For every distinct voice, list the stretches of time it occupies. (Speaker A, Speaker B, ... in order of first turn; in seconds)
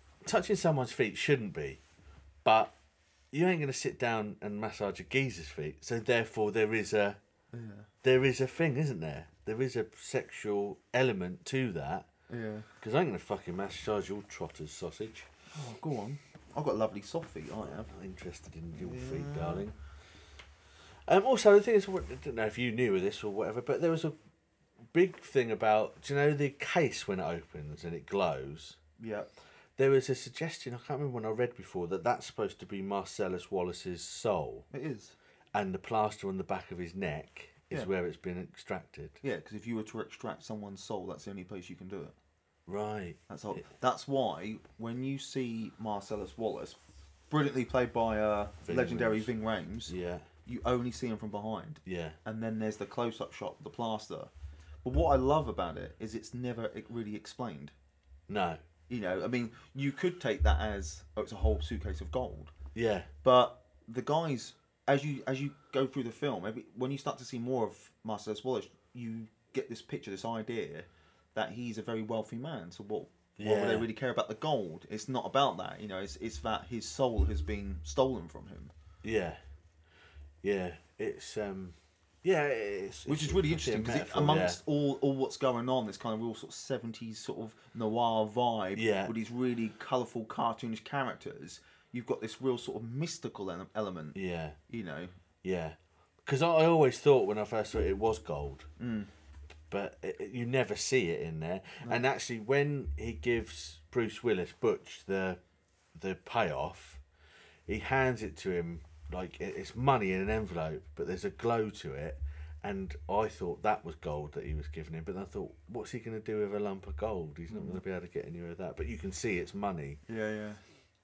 Speaker A: 0.2-1.8, 2.5-2.7, 3.3-7.2, 8.0-12.1, 12.8-15.3, 17.9-19.8, 21.1-24.1, 24.9-28.8, 29.8-34.7, 35.5-39.2, 42.7-43.6, 48.6-49.3, 49.9-50.3, 51.9-52.2, 58.3-58.6, 62.8-63.1, 73.4-73.9, 79.0-79.4, 80.4-84.6, 88.8-89.1, 94.2-94.6, 95.4-98.7, 99.7-105.4, 106.0-107.0, 107.7-120.0
Speaker B: 7.5-7.9, 12.3-12.7, 15.5-17.9, 18.8-19.7, 29.0-29.3, 34.7-35.2, 39.2-42.2, 43.3-46.8, 47.3-49.9, 50.5-54.3, 54.8-57.7, 58.9-62.5, 63.2-78.7, 83.1-94.2, 94.7-95.1, 98.8-99.1, 117.5-117.8, 120.1-120.6